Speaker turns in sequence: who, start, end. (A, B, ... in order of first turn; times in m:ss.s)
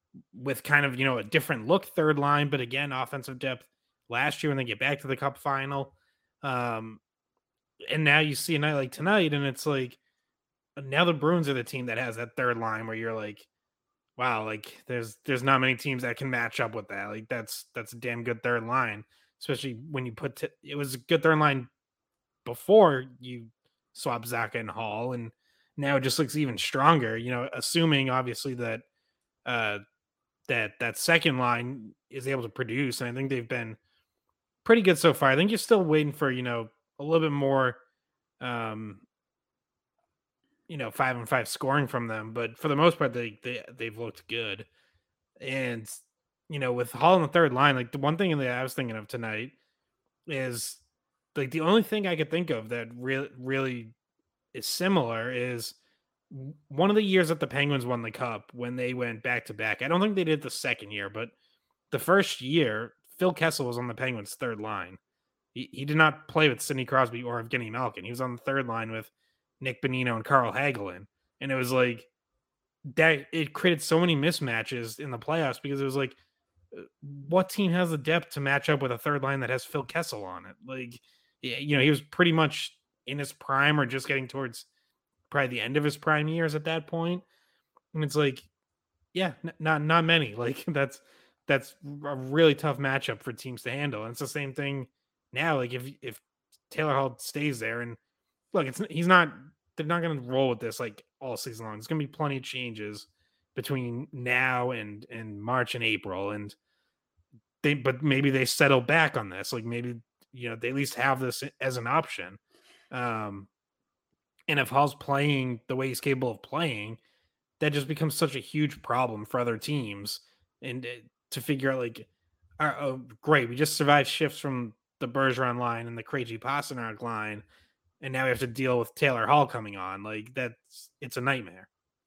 0:00.3-0:07.0 A
0:07.9-0:10.0 A
0:10.8-0:13.5 A
0:14.2-0:21.7 A
0:22.4-0:28.8 A
0:29.4-0:29.8 A
0:30.5-0:33.8 A
0:34.6-0:37.8 A
0:38.4-0:39.0 A
0:40.7-0:44.7 A
0:45.4-0:49.5 A
0:50.3-0:50.8 A
0:51.3-0:53.9 A
0:54.5-0:55.8 A
0:56.3-1:01.3 A
1:01.9-1:05.0 A
1:05.5-1:12.1 A
1:12.8-1:16.2 A
1:16.7-1:24.7 A
1:25.3-1:27.2 A
1:27.9-1:28.5 A
1:29.1-1:38.0 A
1:38.5-1:46.6 A
1:47.6-1:52.4 A
1:52.9-1:53.5 A
1:54.5-1:57.0 A
1:57.6-2:02.0 A
2:02.6-2:07.4 A
2:08.0-2:11.7 A